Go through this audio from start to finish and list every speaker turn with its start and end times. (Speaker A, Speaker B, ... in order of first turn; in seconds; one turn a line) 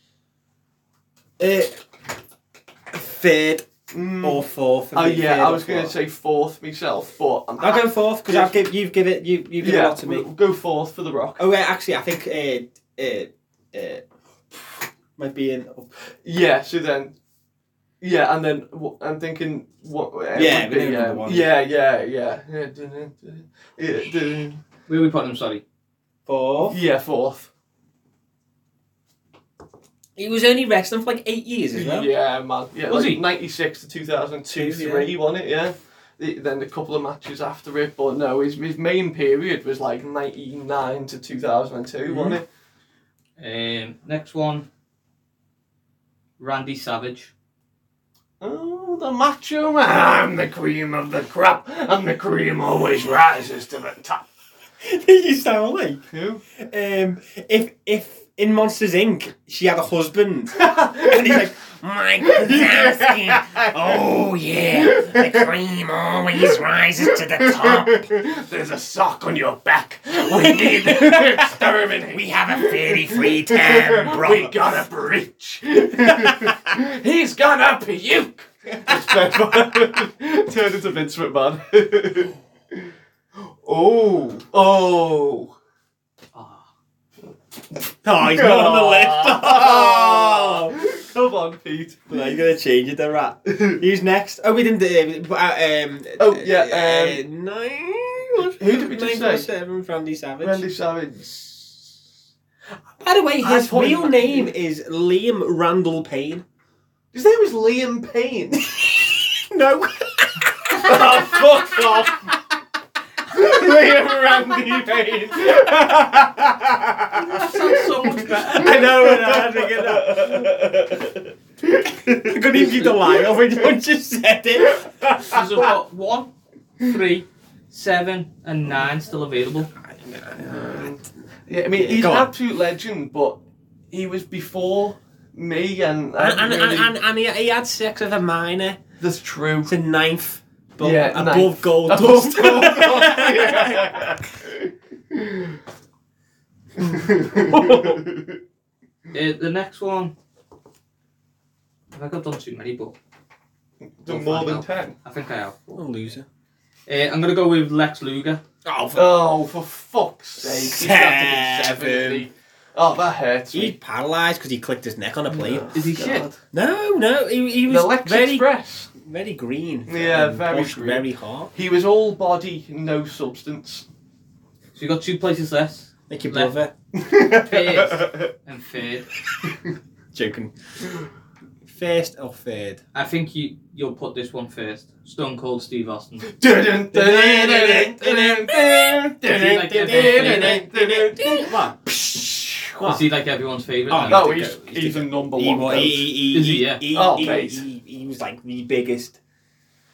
Speaker A: 1.4-1.8
Speaker A: 2.9-5.9
Speaker B: 3.9-8.6
Speaker A: 7.6-10.3
Speaker B: 9.6-11.4
Speaker A: 11.4-14.0
Speaker A: 14.5-15.9
Speaker B: 16.2-17.1
Speaker B: 18.0-24.6
Speaker A: 20.3-21.5
Speaker C: 24.9-25.6
Speaker A: 26.2-26.8
Speaker B: 26.6-27.5
Speaker A: 30.1-32.1
Speaker B: 31.7-42.4
Speaker C: 32.9-33.2
Speaker A: 34.5-35.1
Speaker A: 42.1-42.4
Speaker C: 43.4-44.7
Speaker C: 46.4-47.3
Speaker B: 48.4-54.2
Speaker A: 54.8-56.0
Speaker B: 56.1-56.4
Speaker A: 56.6-68.1
Speaker B: 60.6-61.5
Speaker B: 62.2-64.0
Speaker B: 64.8-65.3
Speaker B: 67.3-82.8
Speaker A: 70.3-74.5
Speaker B: 83.4-85.5
Speaker C: 86.3-86.7
Speaker A: 88.0-90.8
Speaker B: 88.1-92.2
Speaker A: 92.1-100.6
Speaker B: 93.5-93.8
Speaker B: 96.2-97.2
Speaker B: 98.4-99.5
Speaker B: 100.4-102.0
Speaker A: 103.0-106.4
Speaker B: 103.4-104.5
Speaker B: 107.1-108.9
Speaker A: 108.8-111.7
Speaker B: 110.7-112.3
Speaker B: 113.3-123.4
Speaker C: 117.1-118.8
Speaker A: 118.5-120.5
Speaker A: 122.2-125.6
Speaker C: 125.3-129.7
Speaker A: 129.8-130.9
Speaker B: 130.4-133.4
Speaker A: 131.8-132.3
Speaker B: 133.9-136.9
Speaker A: 136.2-138.8
Speaker B: 139.0-139.7
Speaker A: 139.6-144.1
Speaker B: 140.8-145.6
Speaker B: 146.8-148.4
Speaker A: 147.5-147.9
Speaker C: 149.1-150.1
Speaker C: 151.9-152.9
Speaker B: 153.8-154.9
Speaker C: 154.1-155.8
Speaker A: 155.7-156.2
Speaker C: 156.9-158.4
Speaker A: 158.6-159.3
Speaker B: 158.9-163.8
Speaker A: 160.4-162.3
Speaker A: 163.5-165.7
Speaker B: 165.3-166.4
Speaker C: 165.7-166.3
Speaker A: 166.5-171.5
Speaker B: 167.7-168.9
Speaker B: 169.9-173.8
Speaker C: 174.7-176.5
Speaker A: 176.1-176.7
Speaker B: 176.9-178.3
Speaker C: 177.3-179.1
Speaker A: 180.1-180.5
Speaker A: 181.7-182.8
Speaker C: 182.9-186.3
Speaker B: 186.3-192.8
Speaker A: 186.9-191.8
Speaker C: 189.3-190.6
Speaker A: 192.8-193.0
Speaker C: 192.8-194.5
Speaker A: 193.9-199.2
Speaker B: 194.0-196.2
Speaker C: 196.3-196.8
Speaker B: 196.9-197.6